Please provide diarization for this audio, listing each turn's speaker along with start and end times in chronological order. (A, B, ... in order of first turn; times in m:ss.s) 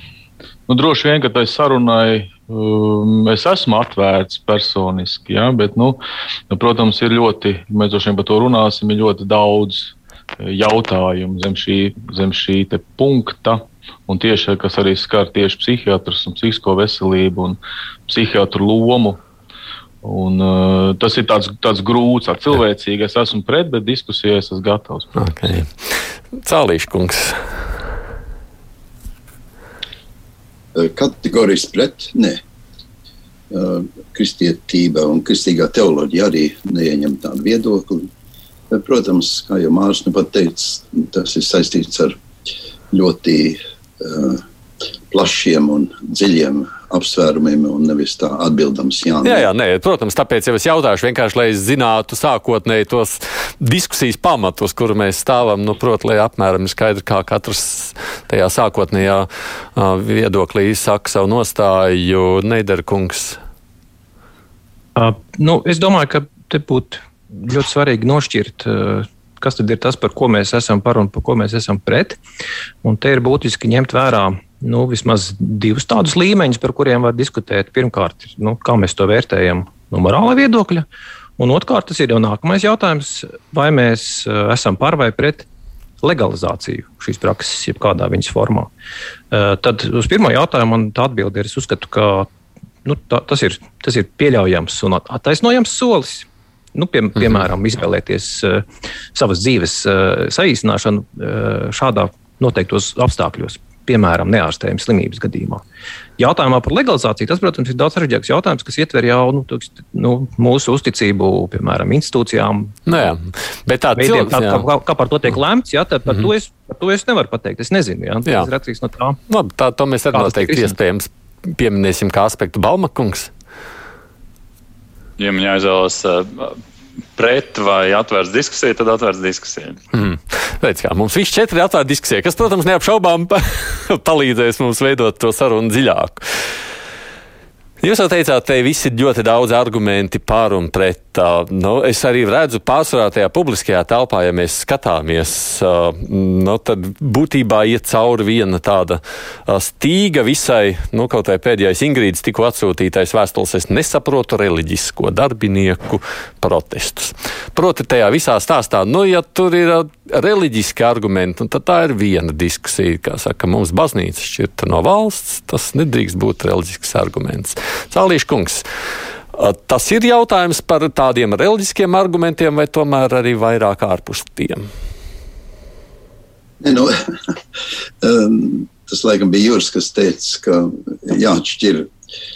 0:00.7-0:19.2 A
0:20.0-0:25.1 A
0:25.2-0:27.5 B
0:30.7-0:32.4 C
0:33.5-0:38.1 C
0:38.7-0:42.2 C
0:42.9-0:44.4 C
0:45.1-0:49.4 C
0:49.2-1:03.4 B
1:05.0-1:12.2 D
1:12.8-1:20.8 D
1:21.4-1:25.5 D
1:26.0-1:28.7 D
1:29.3-1:32.3 D
1:32.8-1:45.6 D
1:46.2-1:52.8 D
1:52.8-1:54.6 B
1:54.0-1:59.2 D
1:59.3-2:03.3 B
2:00.1-2:00.7 D
2:05.2-2:06.6 E
2:07.2-2:09.8 E
2:09.9-2:16.3 B
2:17.8-2:48.6 B
2:49.3-2:54.7 B
2:56.6-2:57.3 C
2:58.0-3:01.9 C